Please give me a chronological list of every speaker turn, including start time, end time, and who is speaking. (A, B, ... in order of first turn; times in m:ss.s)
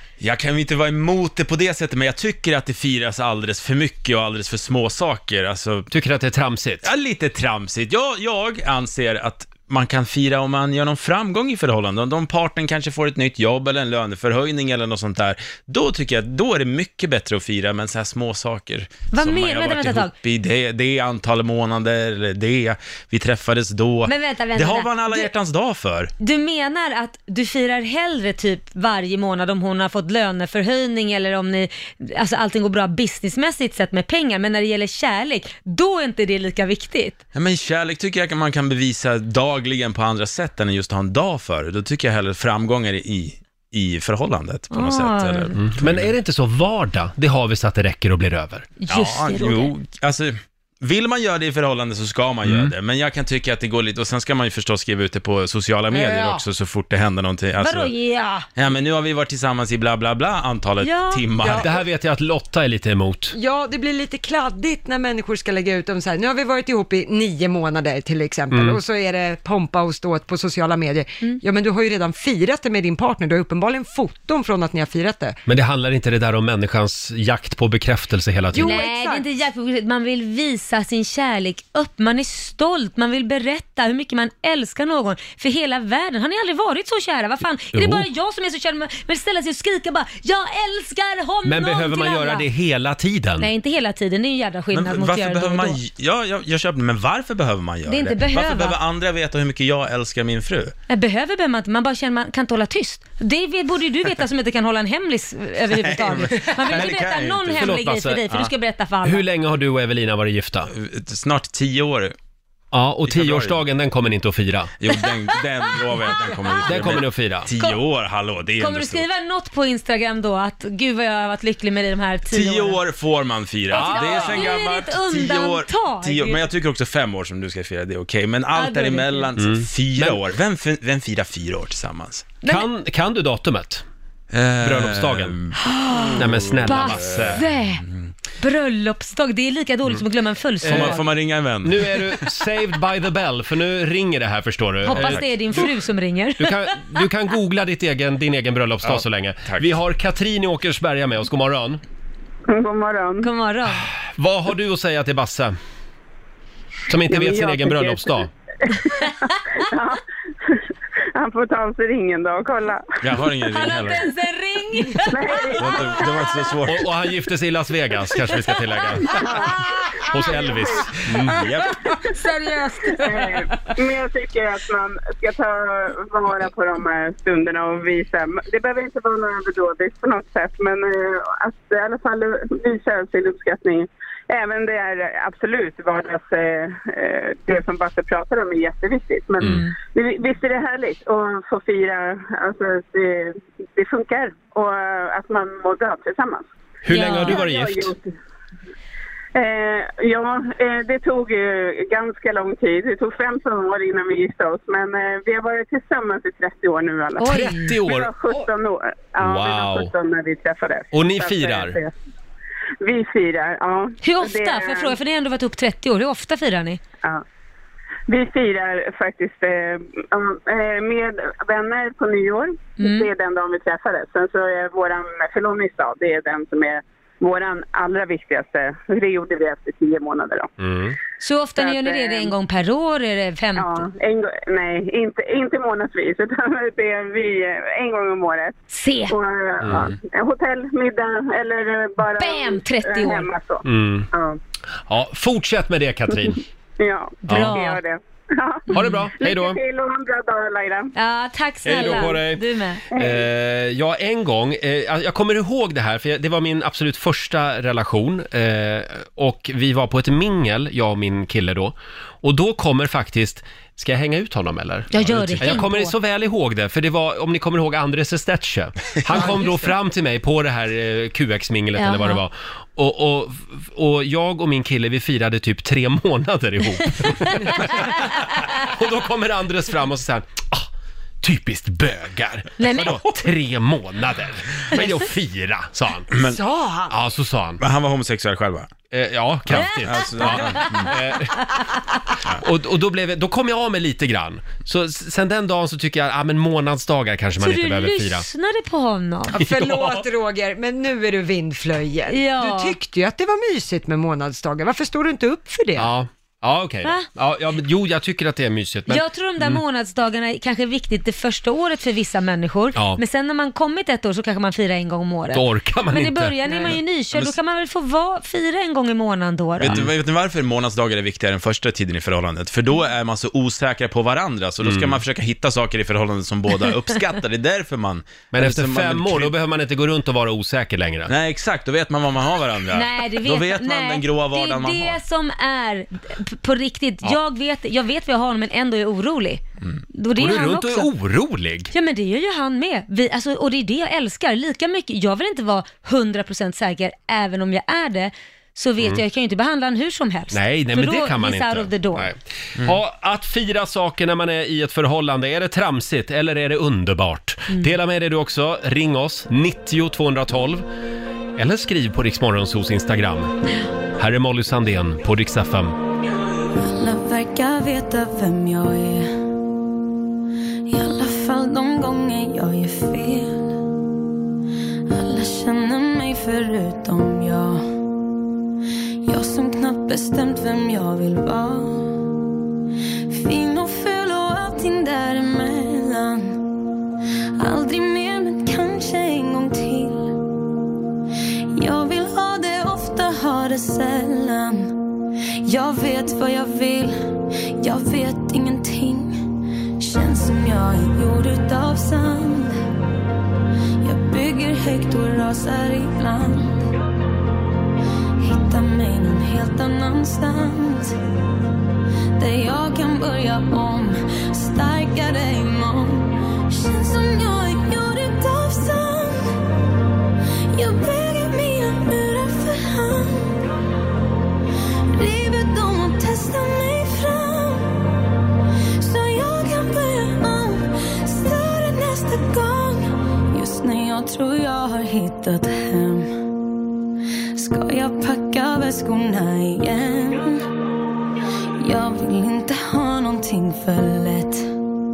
0:00.2-0:05.9 A
0:05.9-0:06.9 B
0:06.8-0:26.1 A
0:19.1-0:20.1 C
0:24.0-0:25.3 C
0:26.2-0:37.2 C
0:37.3-0:46.1 A
0:44.7-0:45.6 C
0:45.6-0:48.7 B
0:48.8-0:49.7 C
0:48.9-0:57.9 A
0:52.4-0:52.7 B
0:55.9-0:56.4 B
0:57.6-0:58.4 C
0:58.6-1:01.7 A
1:00.8-1:01.2 C
1:01.4-1:01.7 D
1:01.5-1:03.3 B
1:03.3-1:15.4 D
1:08.5-1:08.8 B
1:15.4-1:18.8 B
1:18.5-1:19.3 D
1:18.6-1:32.5 C
1:27.7-1:28.1 B
1:31.4-1:33.5 B
1:33.4-1:35.8 C
1:34.7-1:40.7 A
1:37.8-1:38.8 C
1:40.9-1:49.2 C
1:45.7-1:48.5 A
1:47.6-1:48.2 B
1:49.0-1:50.7 B
1:50.7-1:52.1 A
1:52.7-1:54.7 B
1:53.1-1:53.6 A
1:54.8-1:59.0 A
1:55.8-1:56.4 C
1:56.6-1:57.5 B
1:58.6-2:02.8 C
2:02.3-2:12.3 A
2:03.7-2:04.5 B
2:03.7-2:06.4 C
2:08.5-2:09.3 C
2:09.4-2:10.2 B
2:12.4-2:13.8 B
2:14.3-2:18.1 A
2:14.6-2:15.4 B
2:15.6-2:17.8 C
2:16.2-2:17.4 B
2:18.4-2:21.0 C
2:20.6-2:21.0 B
2:20.6-2:22.3 A
2:21.6-2:25.7 B
2:24.8-2:26.7 C
2:24.9-2:25.6 A
2:26.4-2:31.8 B
2:28.8-2:29.7 A
2:32.5-2:33.3 E
2:33.2-2:33.9 C
2:34.0-2:35.5 B
2:36.9-2:38.3 B
2:37.1-2:40.6 E
2:41.1-2:43.0 E
2:43.0-2:44.1 A
2:43.5-2:45.8 C
2:45.0-2:46.4 E
2:45.6-2:46.9 A
2:46.6-2:49.2 B
2:49.1-2:50.9 E
2:49.2-2:50.6 C
2:50.1-2:51.4 B
2:51.2-2:51.8 A
2:52.0-2:53.3 C
2:52.9-3:16.5 E
3:09.4-3:09.6 B
3:16.8-3:17.9 B
3:16.9-3:17.4 C
3:17.2-3:18.1 E
3:19.3-3:31.9 E
3:27.2-3:27.7 C
3:27.2-3:28.4 B
3:29.2-3:29.9 B
3:30.9-3:31.8 B
3:32.8-3:35.0 E
3:34.0-3:36.8 C
3:38.1-3:50.5 E
3:42.8-3:43.1 C
3:50.6-3:51.0 B
3:51.2-3:53.8 C
3:51.6-3:52.3 E
3:53.6-4:04.4 E
3:58.7-3:59.2 C
3:59.6-3:59.9 B
4:02.1-4:03.3 C
4:03.6-4:04.1 B
4:04.9-4:06.4 B
4:06.2-4:10.9 E
4:07.3-4:07.6 B
4:07.3-4:07.8 C
4:08.7-4:09.6 B
4:11.0-4:12.8 C
4:11.6-4:40.7 B
4:11.8-4:12.1 E
4:12.9-4:13.2 E
4:24.9-4:25.9 C
4:31.8-4:32.2 C
4:41.2-4:46.1 B
4:42.6-4:43.2 C
4:46.1-4:46.4 A
4:46.2-4:46.9 D
4:46.9-4:47.6 B
4:47.6-4:48.7 A
4:48.9-4:51.4 B
4:49.5-4:51.8 C
4:49.6-4:50.9 A
4:52.4-4:58.2 B
4:57.4-4:59.4 C
4:59.3-5:05.9 D
4:59.4-5:00.0 B
5:02.1-5:02.7 C
5:05.8-5:09.6 B
5:08.9-5:19.8 C
5:12.7-5:13.0 B
5:15.3-5:16.7 B
5:16.5-5:17.4 A
5:19.6-5:29.3 A
5:19.6-5:19.9 B
5:24.6-5:25.0 B
5:28.3-5:31.1 B
5:31.1-5:35.0 A
5:32.7-5:40.9 C
5:40.1-5:41.7 B
5:41.7-5:52.1 C
5:50.3-6:00.6 B
6:01.4-6:03.3 B
6:04.0-6:05.8 B
6:06.6-6:09.1 F
6:10.7-6:13.6 F
6:14.9-6:17.7 F
6:19.0-6:22.0 F
6:23.1-6:26.4 F
6:27.4-6:30.2 F
6:31.5-6:34.7 F
6:35.4-6:39.2 F
6:39.8-6:42.6 F
6:43.8-6:46.7 F
6:48.2-6:51.0 F
6:52.2-6:59.4 F
7:00.5-7:03.4 F
7:04.9-7:07.8 F
7:08.8-7:16.2 F
7:17.3-7:20.5 F
7:21.6-7:24.5 F